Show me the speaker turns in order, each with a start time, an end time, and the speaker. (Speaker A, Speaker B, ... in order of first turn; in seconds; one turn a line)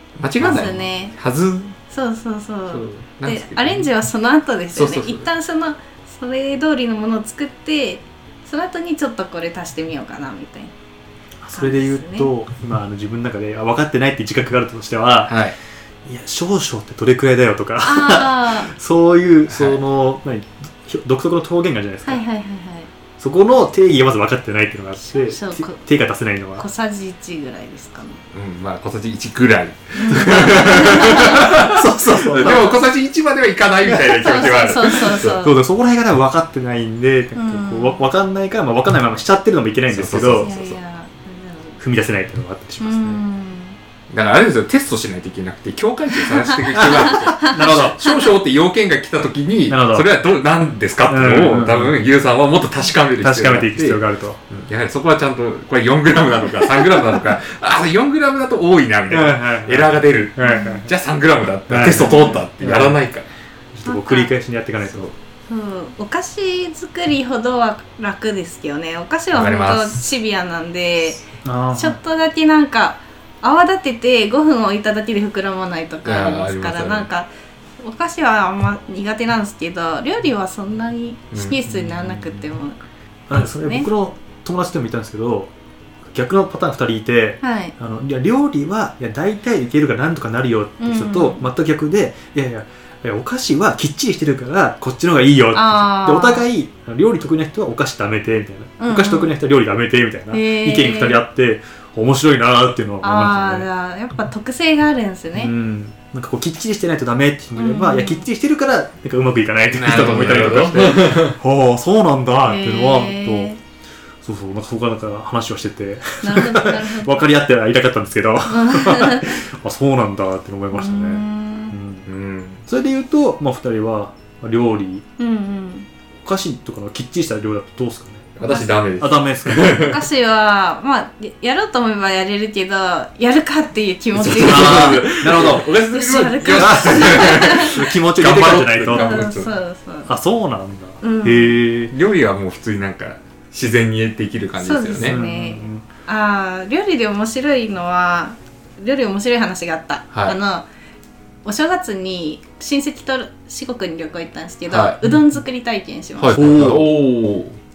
Speaker A: 0.2-1.8
Speaker B: 0.4-1.1
Speaker C: 0.4-0.7
Speaker B: 1.9-10.7
Speaker A: 2.7-3.9
Speaker A: 4.7-5.3
Speaker C: 11.4-15.4
Speaker B: 11.5-12.3
Speaker A: 15.3-15.6
Speaker C: 16.0-22.2
Speaker B: 17.8-18.7
Speaker A: 19.5-19.8
Speaker B: 22.0-22.9
Speaker C: 23.2-26.6
Speaker B: 25.1-25.8
Speaker B: 26.6-28.2
Speaker A: 28.3-35.4
Speaker B: 29.9-31.6
Speaker C: 30.1-32.8
Speaker C: 33.8-40.5
Speaker B: 34.1-35.5
Speaker B: 37.3-38.0
Speaker A: 39.9-40.8
Speaker B: 40.4-41.8
Speaker C: 41.8-43.2
Speaker B: 42.8-43.8
Speaker A: 44.1-63.2
Speaker C: 46.7-48.0
Speaker B: 46.9-48.2
Speaker C: 49.7-50.1
Speaker C: 51.1-52.0
Speaker C: 53.2-54.5
Speaker C: 59.1-60.9
Speaker B: 60.4-60.8
Speaker C: 61.7-63.0
Speaker C: 63.7-65.1
Speaker B: 63.9-64.3
Speaker B: 65.5-77.3
Speaker A: 69.3-70.0
Speaker C: 71.4-72.0
Speaker A: 76.0-77.1
Speaker B: 77.8-82.8
Speaker A: 81.3-81.6
Speaker C: 81.7-82.4
Speaker C: 83.3-85.5
Speaker B: 83.3-83.9
Speaker C: 86.1-103.7
Speaker B: 87.4-87.7
Speaker B: 90.8-91.5
Speaker B: 95.5-96.5
Speaker B: 98.8-99.3
Speaker B: 100.3-101.2
Speaker B: 103.0-105.5
Speaker C: 105.3-113.5
Speaker B: 107.6-108.2
Speaker A: 109.7-111.4
Speaker B: 112.5-113.6
Speaker C: 114.2-122.1
Speaker B: 116.2-117.2
Speaker B: 118.5-119.4
Speaker B: 120.7-121.8
Speaker A: 122.0-122.6
Speaker C: 122.7-125.0
Speaker B: 125.2-125.9
Speaker C: 126.2-129.9
Speaker A: 128.4-130.0
Speaker B: 129.7-137.8
Speaker A: 134.2-139.5
Speaker C: 134.2-139.3
Speaker B: 138.9-140.1
Speaker C: 140.1-141.9
Speaker B: 141.0-141.6
Speaker A: 141.9-145.2
Speaker B: 144.6-150.7
Speaker C: 145.0-145.8
Speaker A: 150.1-150.4
Speaker B: 151.4-156.7
Speaker A: 154.7-155.0
Speaker A: 156.2-157.6
Speaker C: 156.3-156.9